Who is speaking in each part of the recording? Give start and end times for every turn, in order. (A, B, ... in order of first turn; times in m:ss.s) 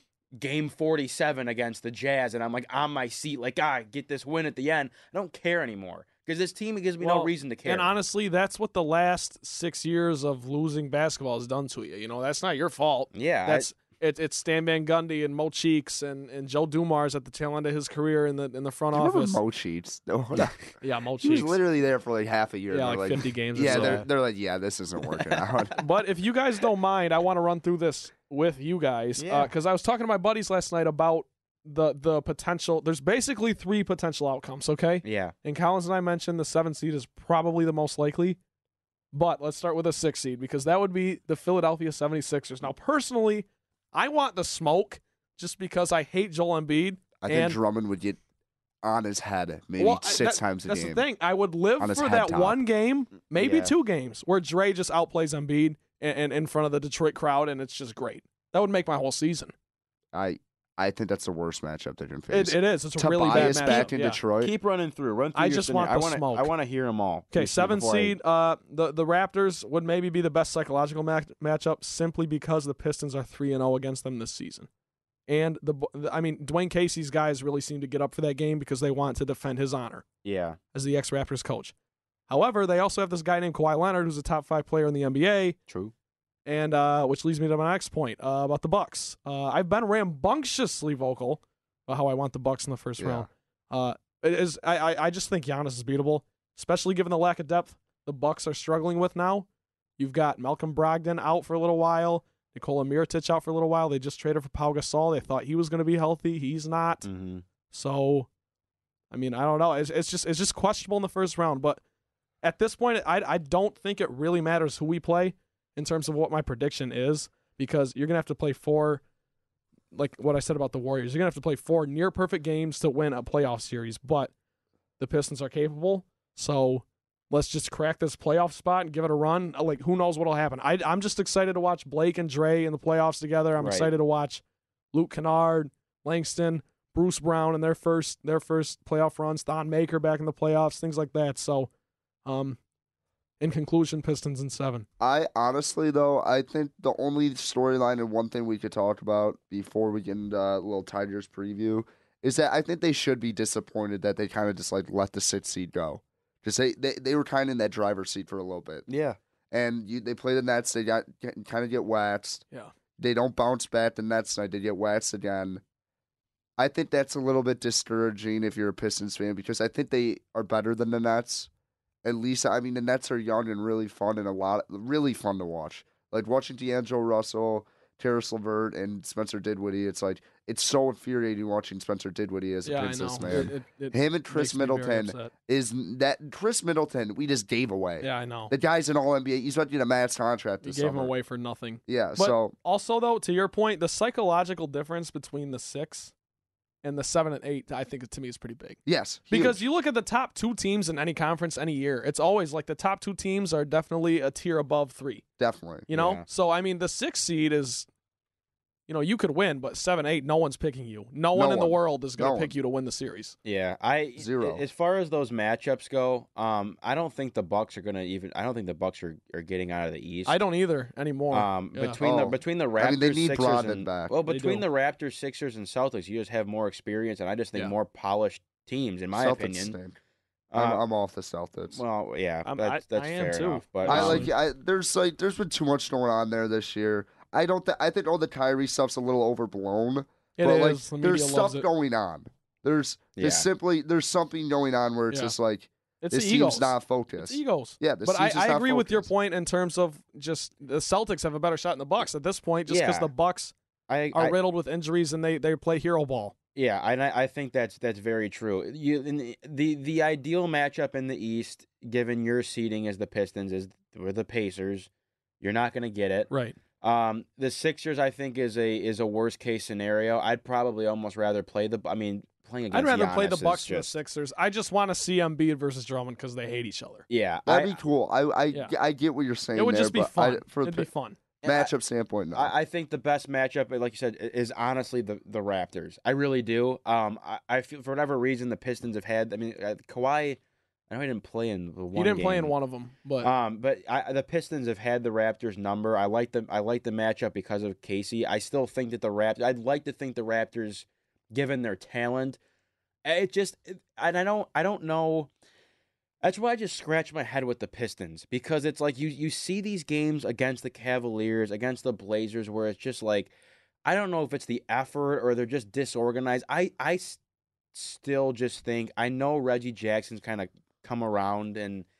0:00.4-0:07.9 A
0:07.0-0:19.4 B
0:13.1-0:13.7 A
0:18.9-0:20.6 C
0:20.8-0:21.6 B
0:21.2-0:25.8 C
0:22.7-0:24.0 B
0:23.6-0:24.1 A
0:25.2-0:25.4 A
0:25.8-0:38.4 B
0:29.2-0:29.5 A
0:35.0-0:35.3 A
0:39.1-0:47.6 B
0:47.2-0:48.2 C
0:48.8-0:51.0 C
0:49.8-0:59.5 B
0:51.8-0:52.6 C
0:53.4-0:53.7 A
1:00.1-1:04.5 C
1:02.3-1:04.2 B
1:03.3-1:03.9 A
1:04.4-1:08.2 A
1:05.4-1:06.5 B
1:07.3-1:14.7 B
1:15.3-1:20.0 B
1:20.2-1:20.6 A
1:20.7-1:21.7 B
1:22.3-1:25.6 B
1:25.7-1:25.9 A
1:26.5-1:39.5 B
1:33.0-1:33.3 C
1:40.0-1:47.1 B
1:47.0-1:47.4 A
1:47.7-1:48.3 B
1:49.1-1:51.8 B
1:52.4-1:59.0 B
1:59.9-2:04.3 B
2:05.0-2:14.4 B
2:13.6-2:13.9 A
2:14.9-2:21.7 B
2:22.2-2:22.6 B
2:23.4-2:24.9 B
2:25.0-2:38.8 C
2:38.9-2:39.2 A
2:39.5-2:42.4 C
2:43.0-2:45.6 C
2:46.6-2:51.5 C
2:52.0-3:11.1 C
3:02.6-3:05.3 B
3:08.0-3:08.5 B
3:10.6-3:16.1 B
3:11.9-3:12.5 C
3:16.8-3:18.8 B
3:18.9-3:19.6 C
3:19.3-3:25.2 B
3:25.4-3:25.9 C
3:25.9-3:27.9 B
3:25.9-3:26.2 A
3:28.9-3:33.4 B
3:31.3-3:32.5 C
3:33.4-3:40.4 A
3:34.2-3:34.6 C
3:40.3-3:42.0 B
3:41.3-3:49.8 A
3:42.0-3:44.1 C
3:44.3-3:44.6 B
3:49.1-3:50.0 C
3:50.5-3:50.8 A
3:50.6-3:51.8 C
3:51.7-3:54.3 A
3:52.5-3:54.3 B
3:53.9-4:09.1 C
4:00.4-4:01.7 B
4:03.2-4:03.5 A
4:06.0-4:13.5 B
4:12.7-4:13.1 A
4:13.9-4:14.4 A
4:14.1-4:16.4 B
4:16.6-4:24.9 A
4:25.4-4:26.3 A
4:26.3-4:26.6 B
4:26.8-4:33.9 A
4:32.7-4:37.1 B
4:37.1-4:37.8 A
4:37.5-4:40.9 C
4:39.6-4:41.2 B
4:41.4-4:41.7 A
4:41.4-4:42.5 C
4:42.3-4:52.5 A
4:51.9-4:53.3 B
4:53.2-5:02.4 A
5:03.0-5:05.3 A
5:06.2-5:13.3 A
5:13.8-5:17.2 A
5:17.7-5:21.9 A